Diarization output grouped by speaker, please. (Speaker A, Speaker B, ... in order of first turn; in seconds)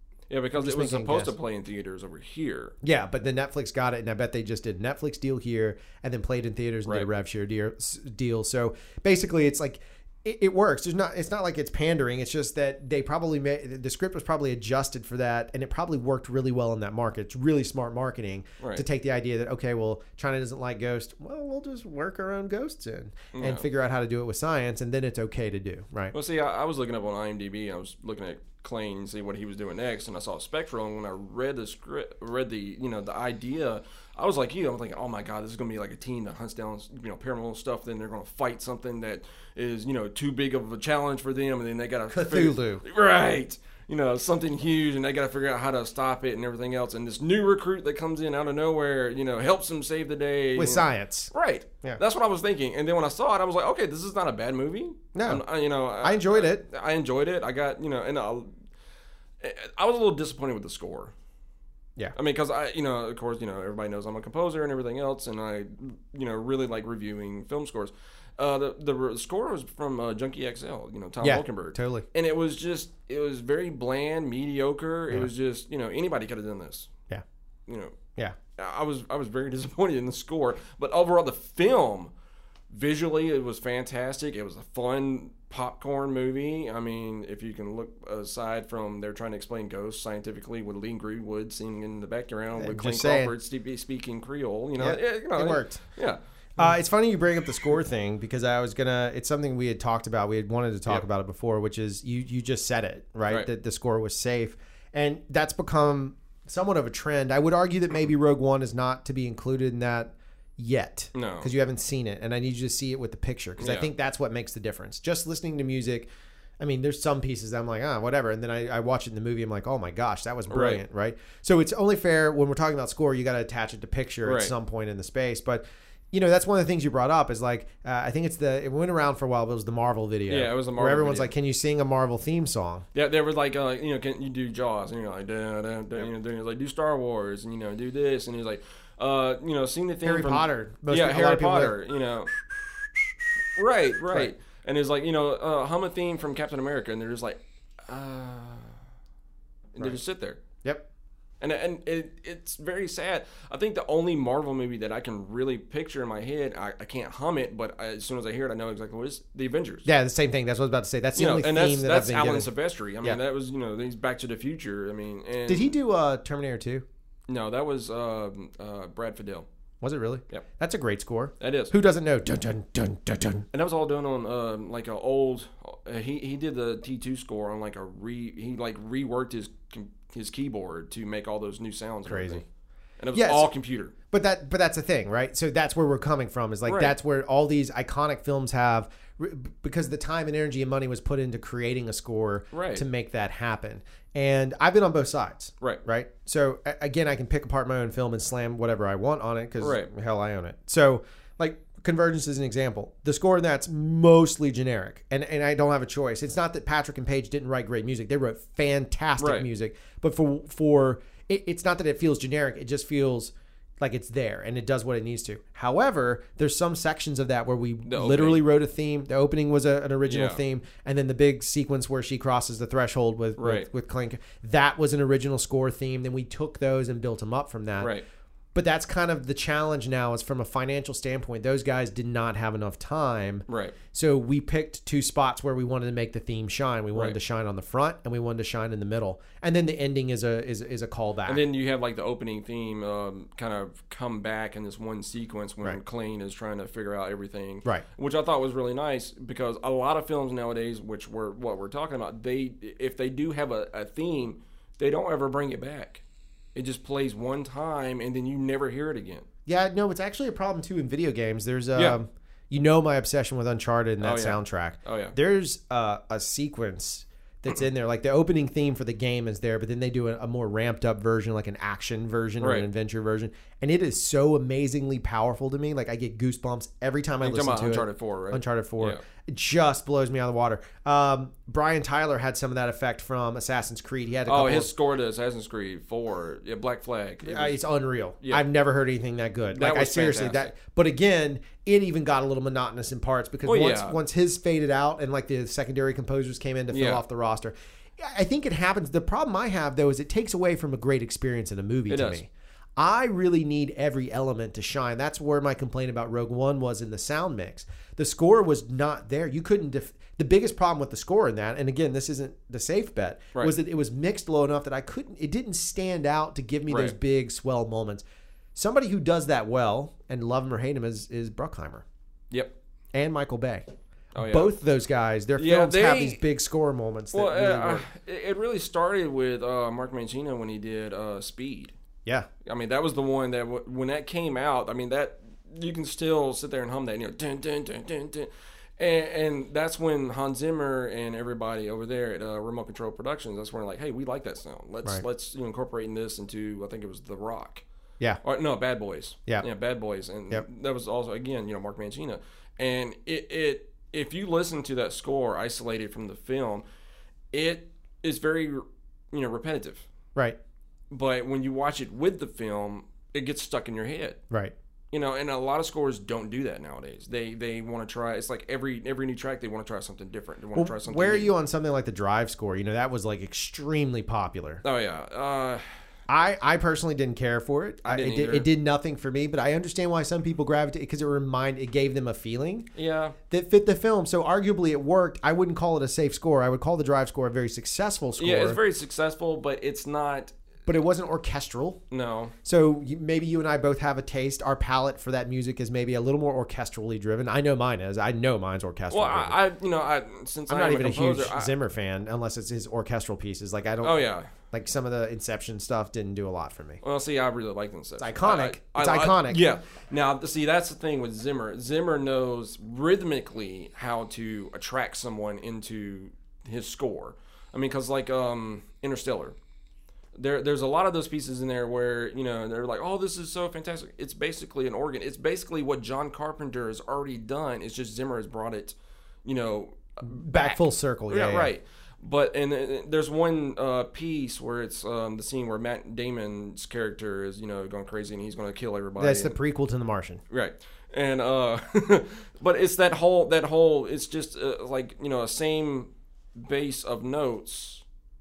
Speaker A: 0.3-2.8, 18.6-18.9, 23.3-23.7, 26.1-58.5, 59.4-61.1, 62.1-76.9, 77.7-78.0, 78.6-82.1, 82.7-96.2, 111.2-111.5, 113.6-113.9, 120.5-120.8, 124.2-124.5, 130.3-131.3, 132.9-142.3, 143.6-148.7, 149.8-150.4, 151.4-159.9, 161.2-165.7, 167.3-169.5, 171.4-171.7, 173.5-182.4, 183.0-183.9, 186.7-186.9, 192.5-192.9, 199.6-199.9, 209.2-209.5, 217.8-218.4, 220.1-220.4, 223.4-223.7, 227.8-228.0, 233.5-233.8, 241.3-256.0, 256.6-259.3, 264.0-265.1, 272.4-272.7, 277.2-279.0, 284.3-287.6, 289.5-290.5, 293.4-294.0, 296.7-297.0, 301.9-302.2, 316.7-316.9, 324.1-324.6, 325.4-326.2, 327.1-331.8, 332.4-347.6, 348.2-356.6, 357.3-359.9, 360.9-364.2, 364.9-371.3, 374.6-375.6, 377.9-378.5, 382.8-383.2, 388.2-390.3, 391.9-392.3, 398.9-401.5, 403.8-404.3, 406.8-419.4, 420.1-439.4, 440.3-447.8
Speaker B: 0.6-1.3, 2.8-26.1, 42.1-42.8, 50.6-51.3, 55.1-55.4, 56.0-56.6, 71.2-72.1, 92.6-93.3, 94.8-95.8, 96.6-116.1, 116.6-132.9, 140.0-141.8, 159.8-162.5, 165.5-166.8, 169.8-173.5, 182.1-182.4, 183.1-183.5, 184.1-227.9, 228.5-241.4, 259.5-284.7, 287.2-318.0, 318.6-321.9, 322.9-327.9, 370.5-374.6, 376.1-382.7, 383.3-388.6, 390.7-391.8, 392.4-399.4, 400.5-406.8, 408.0-409.4, 430.1-431.5, 439.0-440.2